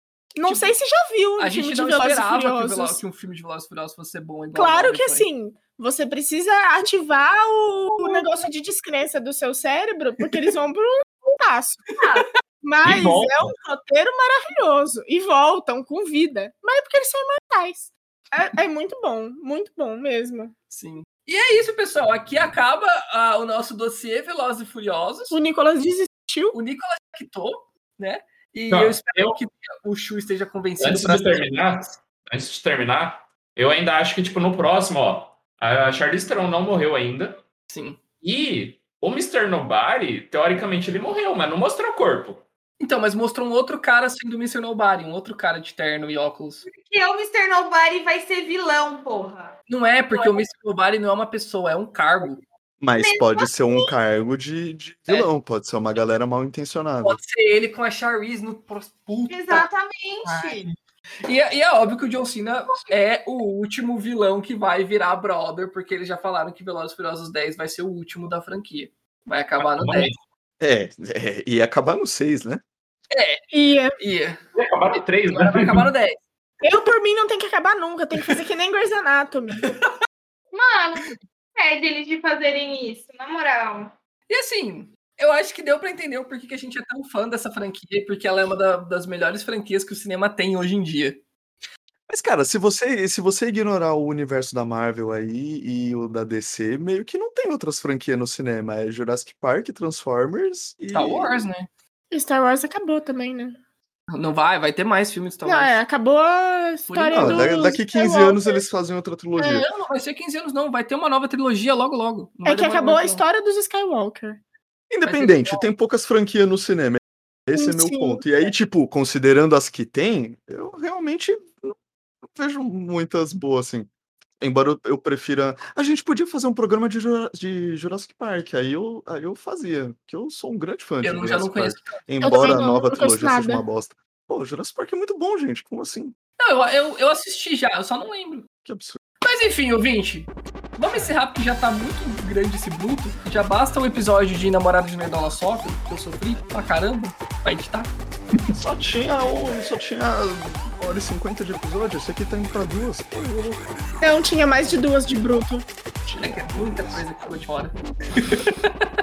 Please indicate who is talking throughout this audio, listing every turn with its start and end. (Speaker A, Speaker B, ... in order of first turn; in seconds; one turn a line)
Speaker A: 0.3-3.0
Speaker B: 0.5-0.7
Speaker B: 1.4-5.3
Speaker A: 4.5-11.9
Speaker C: 8.0-8.2
Speaker C: 11.9-12.3
Speaker A: 12.6-20.5
Speaker D: 12.8-13.6
Speaker B: 20.7-25.4
Speaker A: 25.3-26.6
Speaker B: 26.5-31.7
Speaker D: 28.7-29.4
Speaker D: 30.8-37.4
Speaker B: 37.7-38.0
Speaker D: 38.2-42.4
Speaker B: 42.8-46.6
Speaker C: 46.7-49.5
Speaker B: 49.7-52.4
Speaker E: 52.8-57.2
Speaker C: 53.0-53.9
Speaker B: 57.0-59.7
Speaker C: 59.3-60.6
Speaker B: 60.2-70.1
Speaker D: 69.6-70.2
Speaker E: 70.6-72.6
Speaker B: 73.1-73.5
Speaker A: 73.5-73.9
Speaker B: 74.0-74.4
Speaker D: 74.5-75.9
Speaker B: 74.9-76.2
Speaker A: 76.6-79.7
Speaker C: 80.5-83.9
Speaker B: 84.3-91.2
Speaker E: 92.1-101.5
Speaker B: 100.9-101.7
Speaker A: 102.1-103.6
Speaker B: 104.1-105.8
Speaker A: 105.4-108.6
Speaker B: 106.9-107.7
Speaker E: 107.1-109.7
Speaker B: 109.4-113.2
Speaker A: 112.4-114.4
Speaker E: 114.9-123.9
Speaker B: 115.0-115.7
Speaker A: 117.5-118.2
Speaker E: 124.4-136.2
Speaker B: 131.0-132.6
Speaker A: 132.2-133.6
Speaker B: 136.4-138.5
Speaker E: 138.6-139.0
Speaker B: 139.2-147.9
Speaker E: 148.5-153.6
Speaker A: 154.0-155.7
Speaker E: 156.0-157.0
Speaker B: 156.2-158.9